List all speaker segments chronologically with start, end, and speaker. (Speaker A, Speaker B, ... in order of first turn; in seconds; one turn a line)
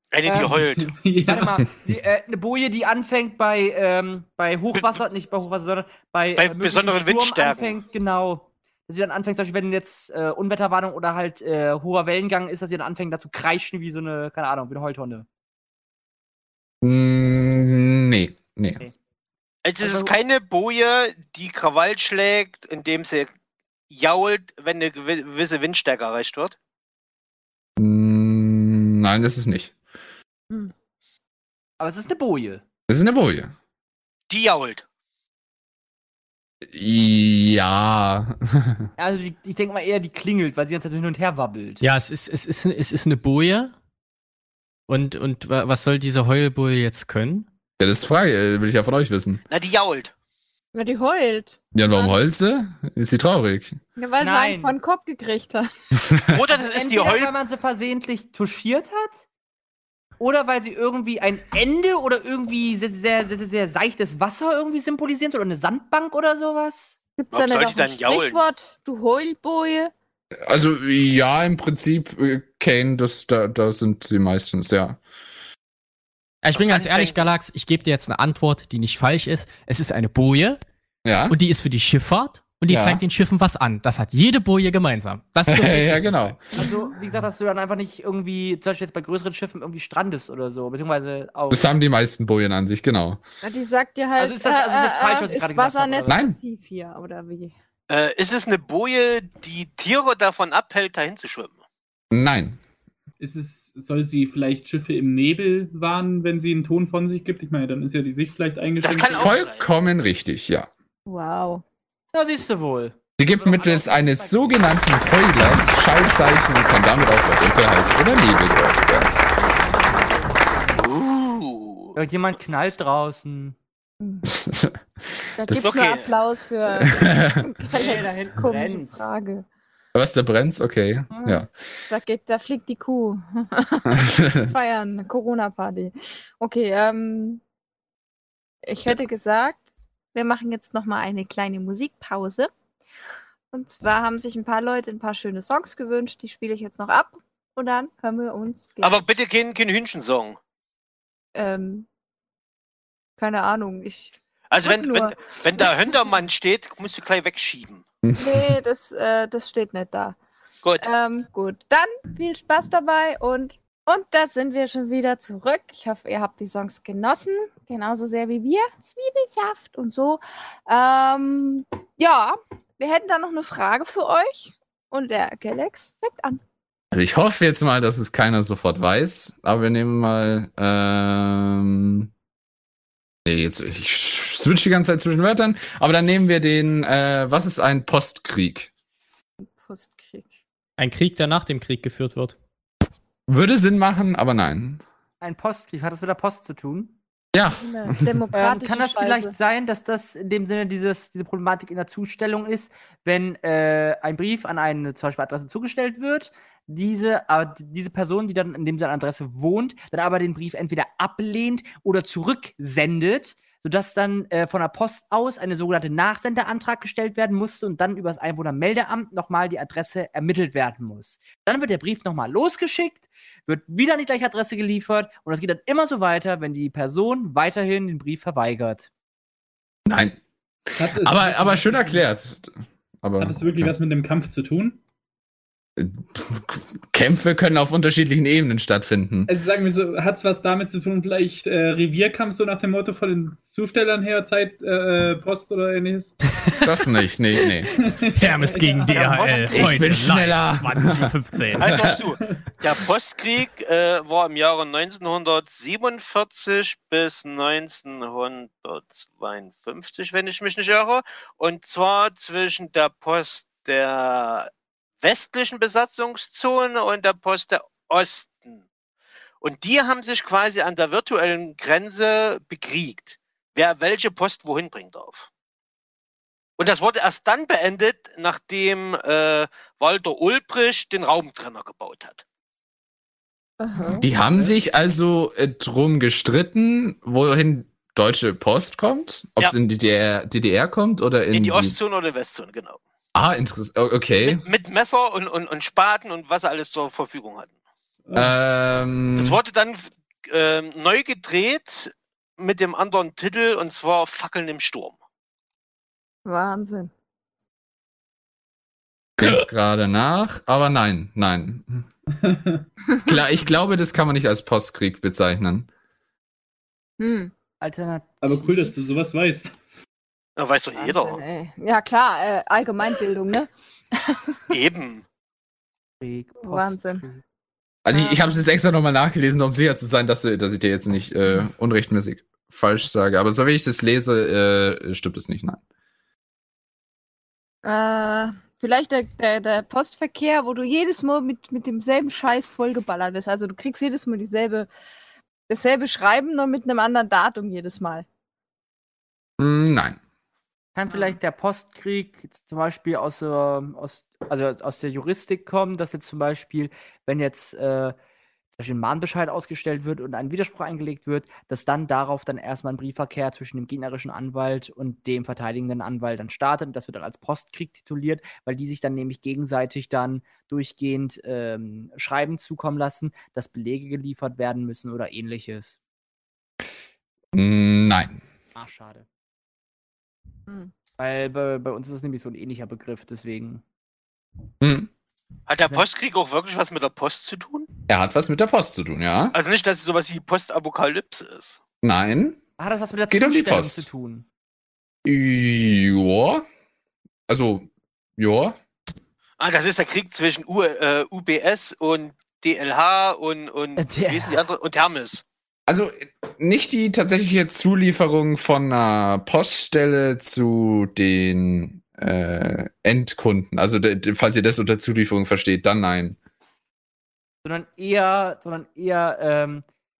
Speaker A: 0.1-0.9
Speaker B: 0.2-0.6
Speaker C: 0.3-1.6
Speaker B: 1.2-15.3
Speaker A: 4.7-5.0
Speaker A: 6.4-7.8
Speaker D: 16.8-18.8
Speaker A: 19.6-23.3
Speaker B: 19.8-20.1
Speaker A: 23.9-26.6
Speaker D: 27.8-29.7
Speaker B: 31.8-32.6
Speaker D: 32.9-33.5
Speaker A: 34.3-34.8
Speaker D: 36.6-38.9
Speaker B: 39.0-41.8
Speaker E: 41.8-43.7
Speaker E: 44.9-47.5
Speaker D: 47.8-49.4
Speaker A: 49.5-50.1
Speaker F: 50.7-52.2
Speaker D: 51.7-53.8
Speaker F: 54.0-55.7
Speaker B: 54.2-54.8
Speaker A: 56.3-57.3
Speaker B: 56.5-59.2
Speaker B: 60.2-67.0
Speaker F: 67.2-69.9
Speaker A: 67.3-68.4
Speaker D: 70.3-75.0
Speaker E: 76.4-80.6
Speaker A: 76.5-77.3
Speaker D: 81.0-81.4
Speaker E: 81.3-86.4
Speaker D: 82.7-83.0
Speaker D: 85.5-86.4
Speaker B: 86.5-91.7
Speaker F: 86.5-86.9
Speaker D: 91.5-93.2
Speaker F: 93.4-97.5
Speaker B: 94.2-96.2
Speaker D: 96.1-96.4
Speaker A: 97.9-101.5
Speaker D: 102.1-102.6
Speaker C: 103.2-109.4
Speaker A: 108.8-109.8
Speaker D: 109.1-110.7
Speaker F: 111.0-111.6
Speaker B: 112.1-115.0
Speaker D: 113.2-119.1
Speaker B: 119.7-120.2
Speaker A: 120.7-122.0
Speaker B: 122.0-123.6
Speaker D: 124.2-124.8
Speaker F: 125.4-129.4
Speaker D: 125.4-125.8
Speaker A: 125.5-126.1
Speaker D: 126.8-127.5
Speaker B: 127.7-129.1
Speaker D: 129.9-131.5
Speaker F: 131.1-137.4
Speaker D: 133.9-134.5
Speaker F: 138.6-139.6
Speaker F: 140.1-142.5
Speaker F: 143.5-149.1
Speaker A: 148.8-150.4
Speaker F: 151.3-151.8
Speaker F: 153.2-154.1
Speaker A: 154.5-157.8
Speaker F: 154.6-155.7
Speaker D: 158.0-158.5
Speaker F: 158.1-160.2
Speaker F: 160.8-176.4
Speaker D: 176.9-182.1
Speaker D: 183.2-188.7
Speaker F: 189.4-190.3
Speaker E: 190.8-192.4
Speaker D: 193.3-194.8
Speaker B: 195.2-196.9
Speaker D: 197.3-198.1
Speaker F: 197.5-199.3
Speaker B: 198.3-228.9
Speaker D: 229.8-230.2
Speaker C: 230.8-232.1
Speaker D: 230.8-233.8
Speaker C: 233.2-234.8
Speaker D: 235.8-239.3
Speaker C: 239.3-246.1
Speaker D: 246.6-247.7
Speaker C: 247.9-249.8
Speaker E: 248.1-251.9
Speaker A: 248.9-249.9
Speaker D: 249.5-252.0
Speaker A: 251.6-264.5
Speaker A: 265.0-268.6
Speaker A: 269.4-275.3
Speaker A: 276.6-282.2
Speaker F: 283.6-284.1
Speaker D: 284.0-291.8
Speaker A: 291.3-292.8
Speaker D: 293.1-294.4
Speaker A: 294.2-297.5
Speaker C: 298.1-298.3
Speaker D: 298.1-299.4
Speaker A: 299.1-304.9
Speaker F: 306.2-306.9
Speaker D: 309.2-311.9
Speaker C: 312.2-312.6
Speaker D: 313.1-315.7
Speaker F: 317.0-317.3
Speaker B: 317.6-318.7
Speaker C: 318.2-319.6
Speaker A: 320.4-321.2
Speaker F: 320.8-324.3
Speaker A: 324.5-325.0
Speaker B: 326.0-327.2
Speaker F: 326.4-327.0
Speaker D: 327.8-335.6
Speaker F: 327.9-328.2
Speaker F: 337.6-344.7
Speaker F: 345.5-348.1
Speaker D: 349.4-350.0
Speaker B: 350.7-357.9
Speaker F: 350.9-351.1
Speaker B: 358.6-375.8
Speaker D: 377.3-378.2
Speaker B: 378.5-379.1
Speaker B: 381.0-383.6
Speaker D: 384.6-384.9
Speaker A: 385.5-387.7
Speaker D: 387.9-389.3
Speaker A: 389.3-391.6
Speaker D: 391.8-392.4
Speaker B: 392.6-394.2
Speaker D: 393.1-393.9
Speaker D: 395.0-396.4
Speaker D: 397.3-398.6
Speaker A: 399.4-405.2
Speaker B: 403.8-404.4
Speaker D: 405.7-416.2
Speaker B: 417.4-419.6